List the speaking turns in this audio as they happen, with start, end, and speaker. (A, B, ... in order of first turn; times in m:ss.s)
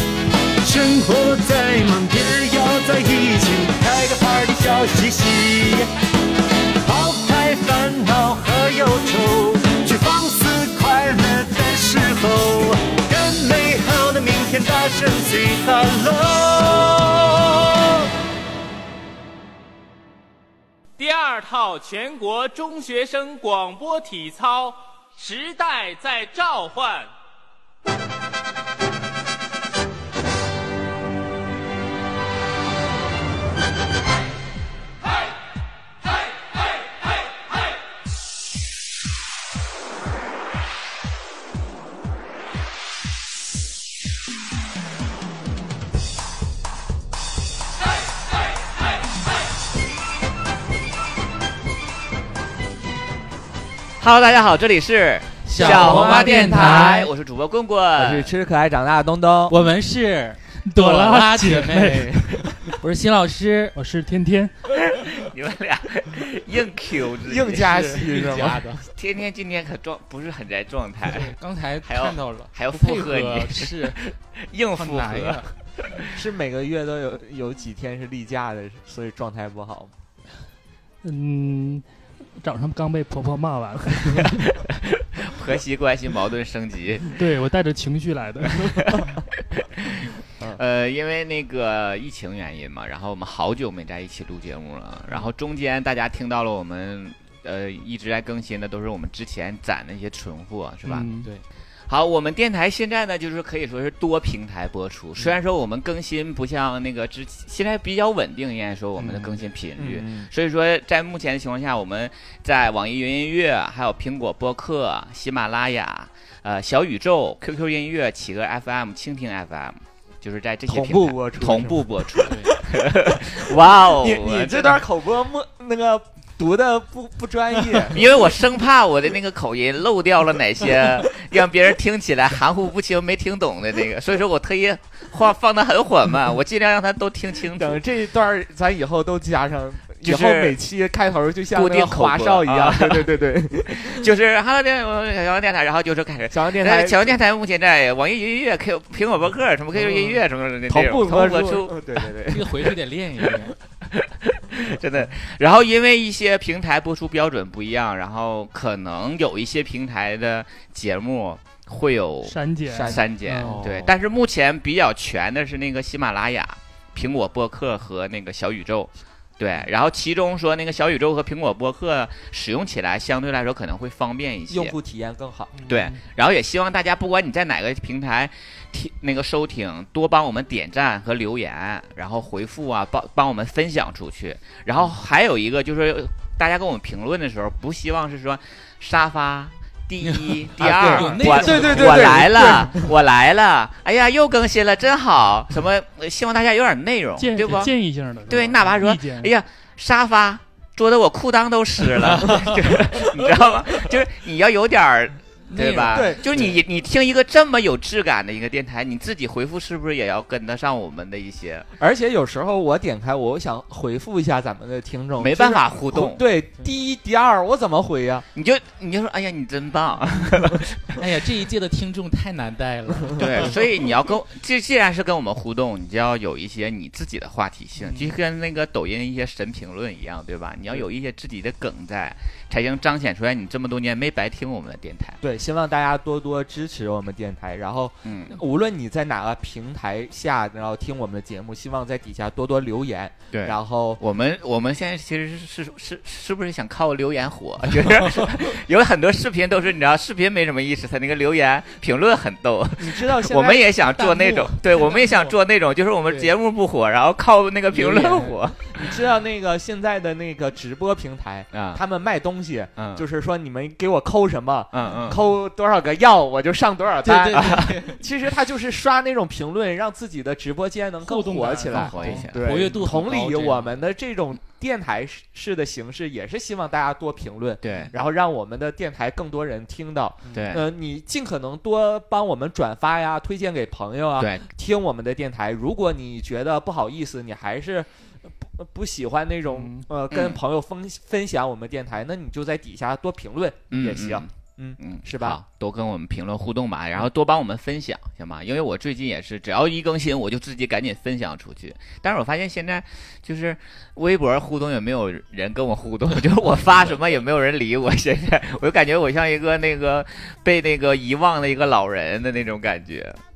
0:00.6-0:05.9 A
0:06.8-0:18.0 A
0:21.0-0:27.1 B
0:54.0-0:58.3 C
0:55.4-0:56.9 D
0:55.6-0:57.1 E
0:58.0-0:59.8 E
0:59.5-1:03.8 D
1:00.6-1:02.5 F
1:03.8-1:04.5 F
1:04.8-1:08.0 C
1:07.2-1:08.9 E
1:07.6-1:08.8 D
1:09.0-1:16.2 C
1:11.1-1:14.0 D
1:14.7-1:15.5 D
1:16.1-1:19.9 E
1:21.0-1:21.8 F
1:22.4-1:24.3 F
1:24.2-1:27.2 C
1:27.1-1:29.1 F
1:29.5-1:41.1 C
1:40.9-1:41.3 F
1:41.9-2:04.8 C
1:49.8-1:50.3 E
2:00.7-2:02.3 E
2:03.8-2:08.1 E
2:07.9-2:17.8 C
2:17.5-2:24.1 E
2:20.0-2:20.6 C
2:21.5-2:23.1 C
2:23.7-2:31.9 C
2:26.3-2:27.2 E
2:29.8-2:32.6 E
2:32.3-2:33.6 D
2:33.8-2:54.8 C
2:42.2-2:43.6 F
2:42.7-2:43.9 E
2:43.4-2:43.8 D
2:54.5-2:55.5 E
2:55.6-2:56.0 F
2:55.7-3:17.7 C
3:10.0-3:12.6 D
3:10.7-3:13.0 E
3:17.2-3:19.3 F
3:18.3-3:31.7 C
3:22.0-3:23.9 E
3:25.5-3:26.1 D
3:25.8-3:26.6 E
3:31.8-3:38.2 E
3:35.2-3:36.2 C
3:38.4-3:41.0 C
3:41.0-3:43.5 D
3:43.2-3:55.2 C
3:55.2-4:04.0 E
3:58.0-3:58.4 C
4:03.3-4:18.9 C
4:12.8-4:15.0 E
4:17.7-4:47.9 E
4:21.5-4:21.8 C
4:22.8-4:23.1 C
4:24.7-4:25.2 C
4:27.0-4:28.0 D
4:27.3-4:27.8 C
4:31.0-4:32.2 F
4:31.7-4:32.7 C
4:32.2-4:33.8 D
4:37.6-4:37.9 C
4:40.3-4:40.7 C
4:44.2-4:44.5 C
4:48.5-4:55.4 E
4:49.5-4:49.9 F
4:50.1-4:50.4 C
4:53.7-5:13.2 C